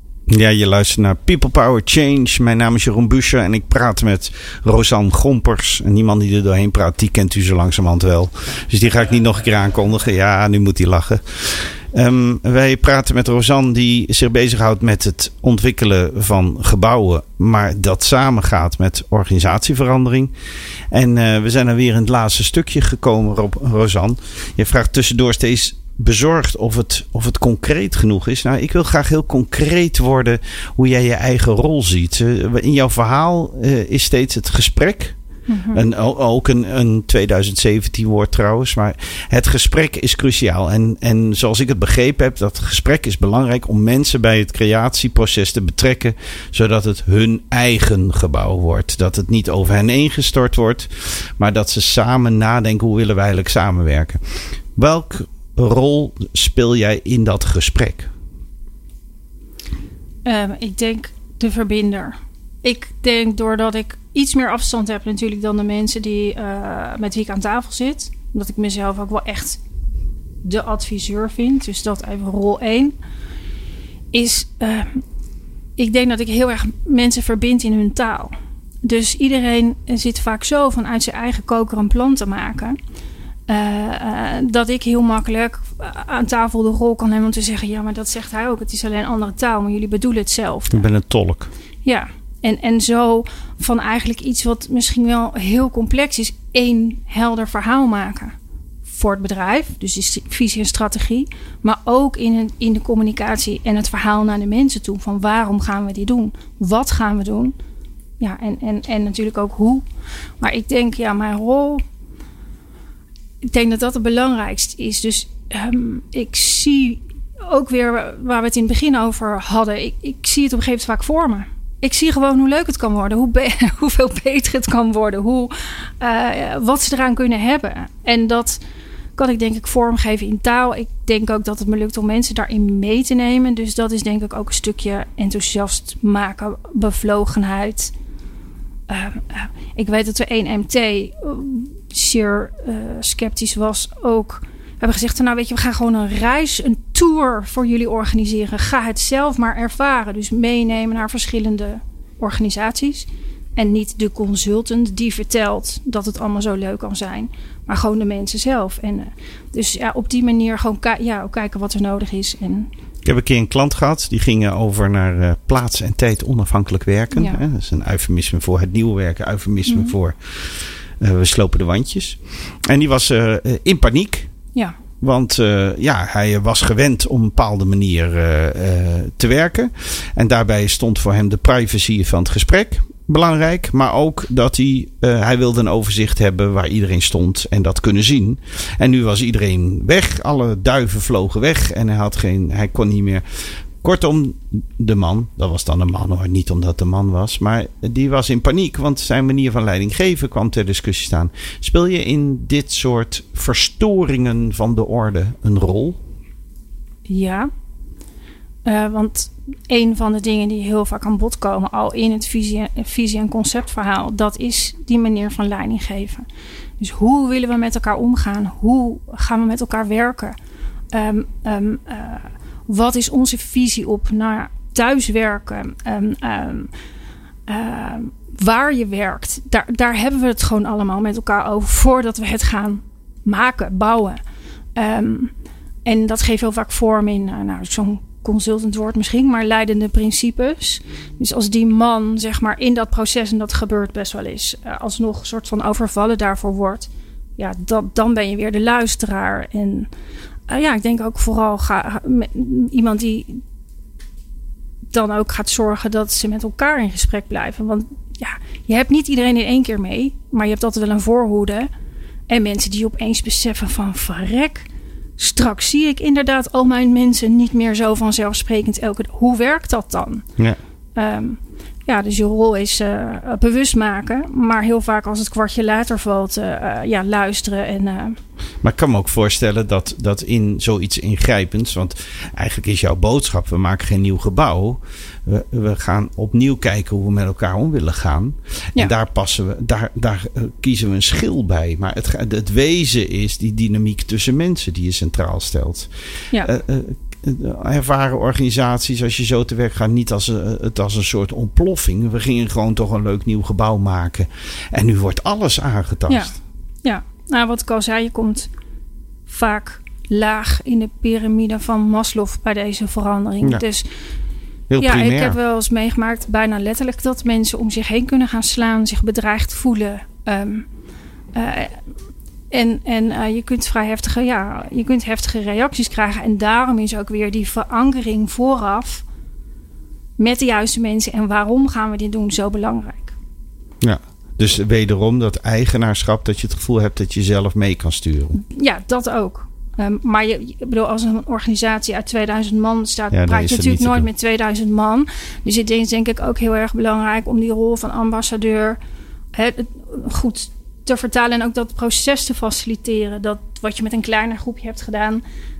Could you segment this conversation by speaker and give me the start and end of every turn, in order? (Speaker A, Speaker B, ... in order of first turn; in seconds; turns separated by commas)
Speaker A: 0.3-20.3, Speaker A: 20.9-35.1, Speaker B: 35.5-35.8, Speaker A: 35.7-54.2, Speaker A: 54.7-58.1, Speaker B: 60.2-69.6, Speaker B: 70.4-72.9, Speaker B: 74.1-75.0, Speaker B: 75.8-82.8, Speaker B: 83.5-90.8, Speaker A: 90.7-91.5, Speaker B: 91.8-98.3, Speaker B: 98.9-107.5, Speaker B: 108.2-109.8, Speaker B: 110.4-111.8, Speaker B: 113.4-128.6, Speaker B: 129.2-137.9, Speaker B: 138.9-162.7, Speaker A: 163.0-174.3, Speaker B: 167.1-167.4, Speaker B: 169.7-169.9, Speaker A: 175.0-193.2, Speaker A: 193.8-206.0, Speaker B: 207.1-207.5, Speaker B: 208.6-216.3, Speaker B: 216.8-220.3, Speaker B: 220.9-226.7, Speaker B: 227.5-234.2, Speaker B: 234.8-235.3, Speaker B: 235.8-249.9, Speaker B: 250.5-253.4, Speaker B: 254.9-261.7, Speaker B: 262.3-264.7, Speaker B: 265.2-270.2, Speaker B: 270.9-278.2, Speaker A: 278.6-295.9, Speaker A: 296.4-306.3, Speaker B: 306.1-308.5, Speaker B: 309.3-313.9, Speaker A: 314.7-315.4, Speaker B: 314.8-320.7, Speaker B: 321.3-321.8, Speaker B: 322.5-329.0, Speaker B: 330.2-333.1, Speaker A: 333.8-338.4, Speaker B: 338.3-348.8, Speaker A: 343.1-344.1, Speaker B: 349.3-355.2